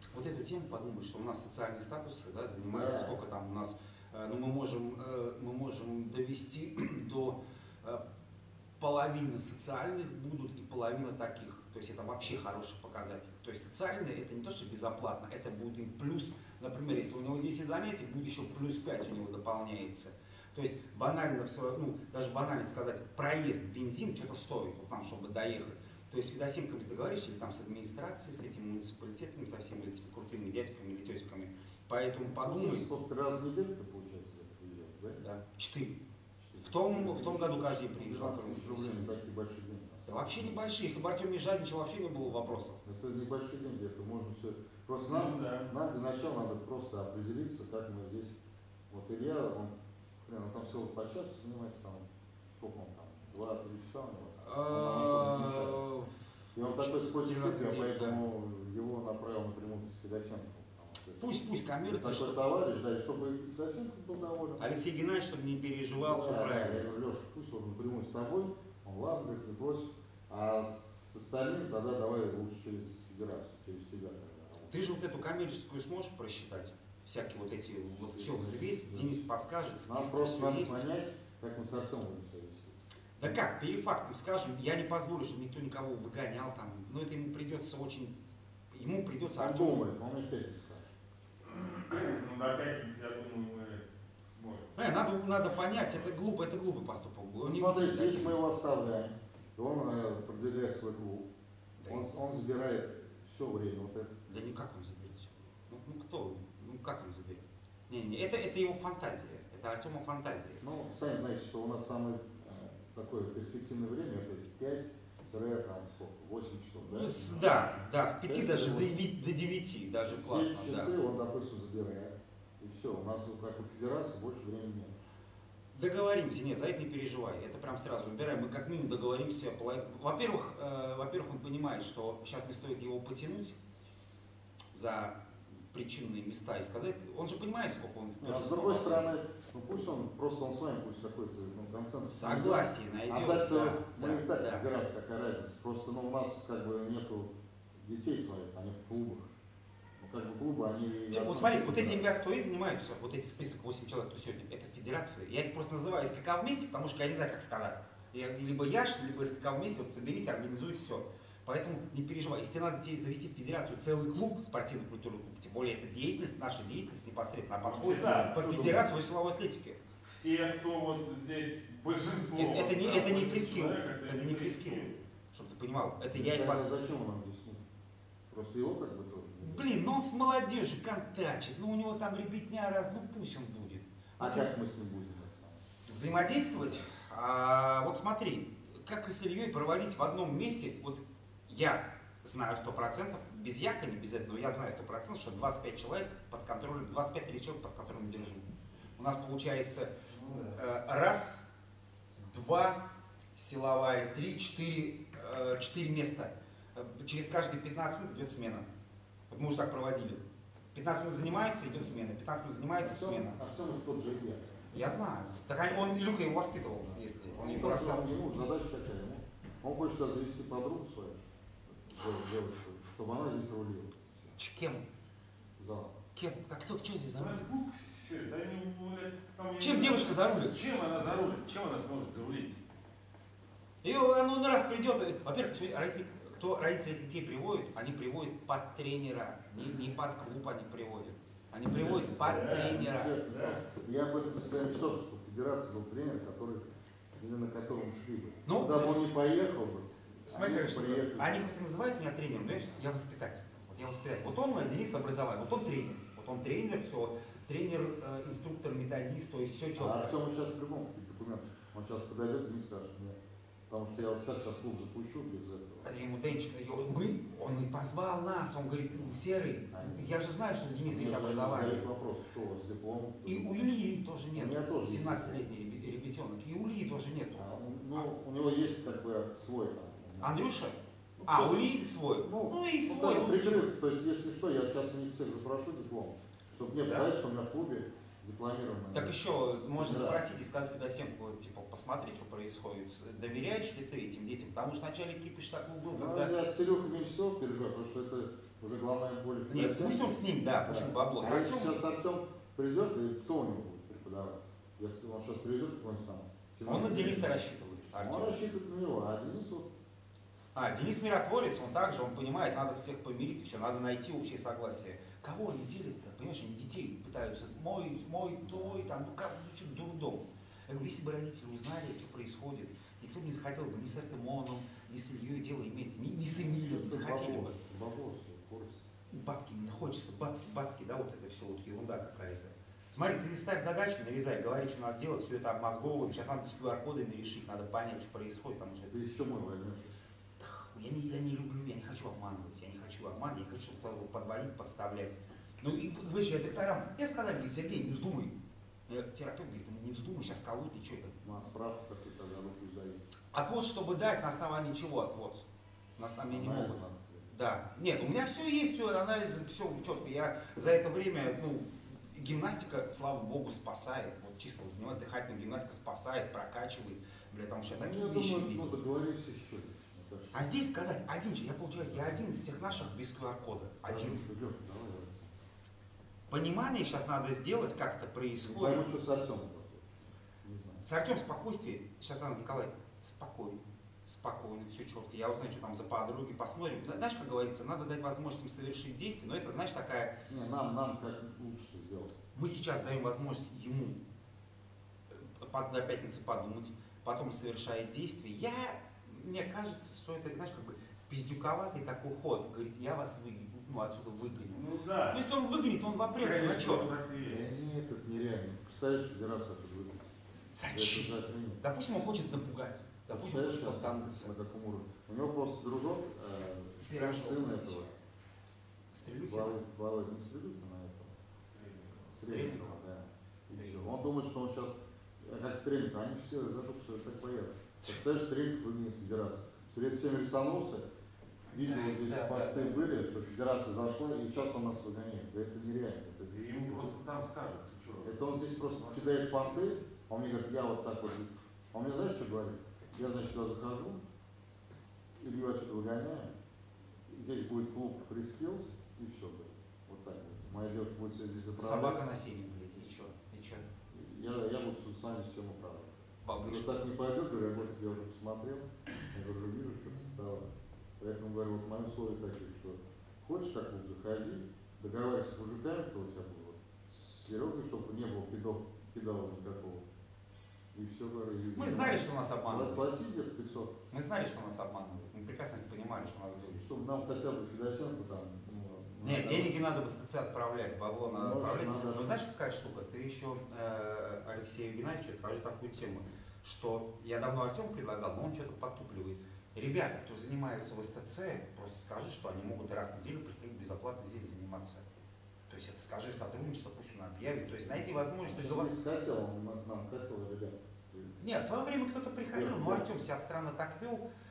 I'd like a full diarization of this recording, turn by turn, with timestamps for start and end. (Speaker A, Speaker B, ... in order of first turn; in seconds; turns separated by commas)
Speaker A: 0.1-8.0, Speaker B: 2.7-3.1, Speaker A: 8.8-32.8, Speaker B: 32.2-35.2, Speaker A: 35.2-36.0, Speaker A: 36.5-39.1, Speaker B: 36.5-40.6, Speaker A: 40.1-42.8, Speaker B: 42.8-48.4, Speaker C: 45.0-45.7, Speaker B: 48.9-55.8, Speaker A: 54.4-58.2, Speaker B: 56.5-61.2, Speaker A: 61.2-62.4, Speaker B: 61.8-64.7, Speaker A: 64.6-66.9, Speaker B: 66.0-74.7, Speaker A: 74.7-80.8, Speaker B: 77.8-79.2, Speaker B: 79.8-83.3, Speaker A: 83.2-88.2, Speaker A: 88.7-89.8, Speaker B: 89.4-90.9, Speaker C: 91.5-94.7, Speaker A: 94.8-98.4, Speaker B: 97.4-101.3, Speaker A: 101.8-102.1, Speaker B: 101.9-104.2, Speaker A: 104.3-110.6, Speaker B: 110.6-119.0, Speaker A: 116.8-120.9, Speaker B: 120.0-124.9, Speaker A: 125.7-133.6, Speaker A: 134.7-135.2, Speaker A: 135.7-139.1, Speaker B: 138.2-149.3, Speaker A: 142.1-144.6, Speaker B: 150.0-152.1, Speaker A: 151.1-169.8, Speaker C: 167.6-168.4, Speaker B: 168.3-168.8, Speaker C: 170.0-175.0, Speaker A: 172.3-176.7, Speaker B: 176.1-177.6, Speaker B: 178.3-179.7, Speaker A: 179.4-184.5, Speaker B: 184.2-185.6, Speaker A: 185.8-198.4, Speaker A: 199.0-201.4, Speaker C: 200.1-200.6, Speaker A: 202.3-202.8, Speaker A: 203.3-208.7, Speaker A: 209.3-210.2, Speaker A: 210.7-213.4, Speaker B: 212.8-214.7, Speaker A: 214.7-218.1, Speaker B: 216.8-224.3, Speaker A: 224.3-224.8, Speaker B: 225.6-225.9, Speaker A: 226.1-227.4, Speaker C: 227.1-232.6, Speaker A: 229.6-230.6, Speaker A: 233.8-243.1, Speaker C: 241.7-243.6, Speaker B: 242.3-246.6, Speaker B: 247.2-251.4, Speaker A: 248.4-249.0, Speaker A: 250.3-260.2, Speaker B: 259.8-263.2, Speaker B: 263.7-265.9, Speaker A: 265.8-271.8, Speaker B: 269.7-270.2, Speaker B: 270.8-273.5, Speaker A: 273.2-278.1, Speaker B: 274.3-275.4, Speaker B: 277.4-280.4, Speaker A: 280.2-283.7, Speaker B: 281.2-289.2, Speaker A: 286.8-287.1, Speaker A: 288.9-296.3, Speaker B: 289.8-290.2, Speaker B: 295.9-307.4, Speaker A: 299.5-301.8, Speaker A: 306.6-308.3, Speaker B: 307.9-309.7, Speaker A: 310.5-327.5, Speaker B: 318.4-318.9, Speaker B: 326.4-328.8, Speaker A: 329.1-339.0, Speaker B: 338.9-339.9, Speaker A: 340.4-348.3, Speaker A: 348.9-351.2, Speaker B: 351.2-353.0, Speaker A: 353.3-355.4, Speaker A: 356.0-368.8, Speaker B: 356.3-357.3, Speaker B: 367.7-370.5, Speaker A: 370.3-374.2, Speaker B: 373.8-375.4, Speaker A: 376.3-378.8, Speaker B: 378.4-380.8, Speaker A: 380.8-390.1, Speaker B: 390.3-392.2, Speaker A: 392.3-394.0, Speaker A: 395.1-406.9, Speaker C: 404.5-405.2, Speaker C: 406.1-407.6, Speaker B: 407.2-410.1, Speaker A: 410.4-414.3, Speaker B: 410.7-411.6, Speaker B: 413.1-417.9, Speaker A: 416.8-417.9, Speaker A: 418.4-419.6, Speaker B: 419.2-421.2, Speaker C: 421.5-422.1, Speaker A: 422.1-422.8, Speaker B: 422.2-430.9, Speaker A: 423.5-423.9, Speaker A: 431.5-432.9, Speaker B: 431.5-436.9, Speaker C: 436.3-439.7, Speaker B: 438.0-444.0, Speaker B: 445.2-446.3, Speaker B: 447.1-452.0, Speaker A: 451.4-453.7, Speaker B: 453.9-460.5, Speaker A: 456.2-456.8, Speaker B: 461.0-469.8, Speaker B: 470.7-473.7, Speaker A: 471.5-472.8, Speaker A: 473.9-476.6, Speaker B: 476.5-479.6, Speaker A: 479.0-494.9, Speaker B: 481.1-482.2, Speaker A: 495.5-498.7, Speaker B: 498.2-501.1, Speaker A: 501.2-504.0, Speaker B: 502.3-502.8